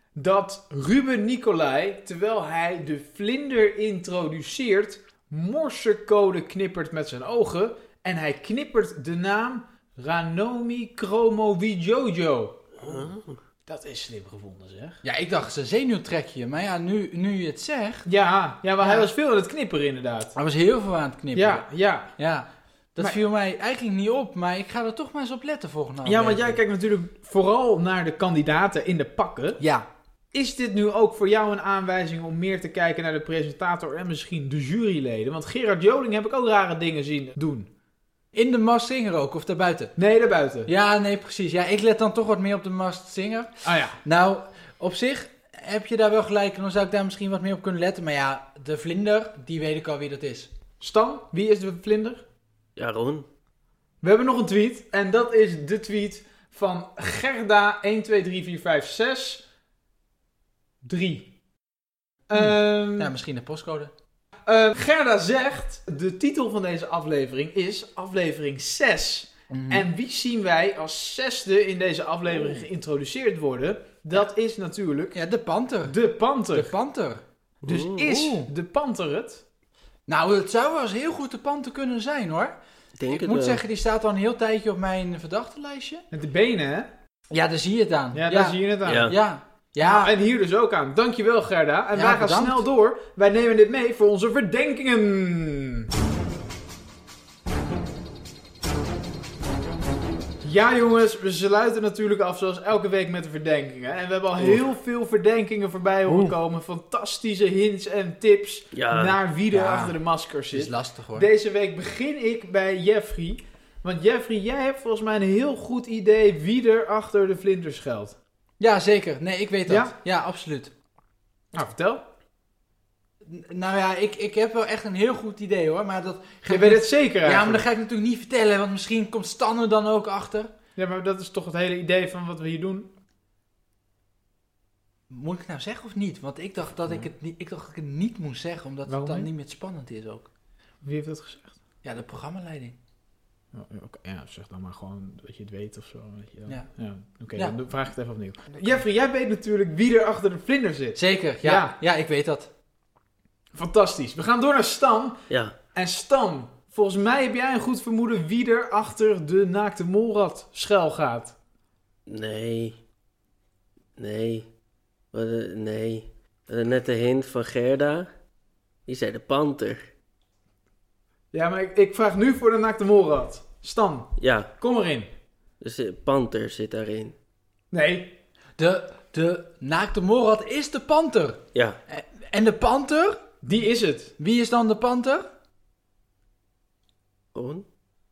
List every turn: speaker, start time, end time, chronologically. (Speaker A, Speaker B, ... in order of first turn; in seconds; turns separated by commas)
Speaker A: 0.1-13.1, Speaker B: 12.8-13.4, Speaker A: 13.7-15.0, Speaker C: 15.0-18.1, Speaker A: 18.1-20.3, Speaker C: 18.8-19.1, Speaker C: 20.3-26.6, Speaker A: 21.3-22.1, Speaker A: 26.1-29.6, Speaker C: 29.6-29.9, Speaker A: 30.3-37.7, Speaker C: 38.3-39.9, Speaker A: 40.0-40.7, Speaker C: 40.7-43.5, Speaker A: 43.6-44.0, Speaker C: 44.0-50.5, Speaker A: 50.8-52.2, Speaker B: 52.8-53.2, Speaker A: 54.0-59.4, Speaker A: 60.8-61.3, Speaker A: 62.3-63.1, Speaker C: 62.3-63.9, Speaker A: 64.5-75.2, Speaker C: 69.5-69.9, Speaker C: 72.4-72.6, Speaker C: 75.1-76.0, Speaker A: 75.8-76.7, Speaker C: 76.5-77.2, Speaker A: 77.6-79.4, Speaker B: 77.6-78.2, Speaker C: 78.1-78.5, Speaker C: 80.1-82.6, Speaker B: 83.0-83.6, Speaker C: 83.1-86.0, Speaker A: 86.1-86.9, Speaker C: 87.3-90.1, Speaker A: 88.1-89.1, Speaker B: 88.8-89.1, Speaker A: 89.8-95.9, Speaker C: 91.9-92.6, Speaker A: 100.4-118.2, Speaker C: 106.1-106.3, Speaker B: 108.7-109.2, Speaker C: 109.5-110.0, Speaker C: 110.5-111.3, Speaker C: 118.6-120.7, Speaker A: 119.7-119.9, Speaker A: 121.5-122.0, Speaker C: 123.3-130.5, Speaker A: 126.5-127.7, Speaker A: 130.8-132.9, Speaker C: 135.1-140.3, Speaker A: 138.9-139.3, Speaker A: 140.8-141.6, Speaker C: 141.8-142.8, Speaker A: 143.5-151.8, Speaker C: 150.9-152.5, Speaker A: 153.6-155.2, Speaker B: 155.3-155.6, Speaker A: 155.7-161.3, Speaker B: 162.1-162.8, Speaker B: 164.0-164.5, Speaker B: 165.1-168.1, Speaker B: 168.8-169.8, Speaker A: 171.3-175.1, Speaker B: 174.2-174.5, Speaker B: 175.6-177.1, Speaker A: 177.7-178.1, Speaker C: 178.6-183.2, Speaker A: 183.4-184.1, Speaker C: 184.2-185.3, Speaker B: 187.3-187.7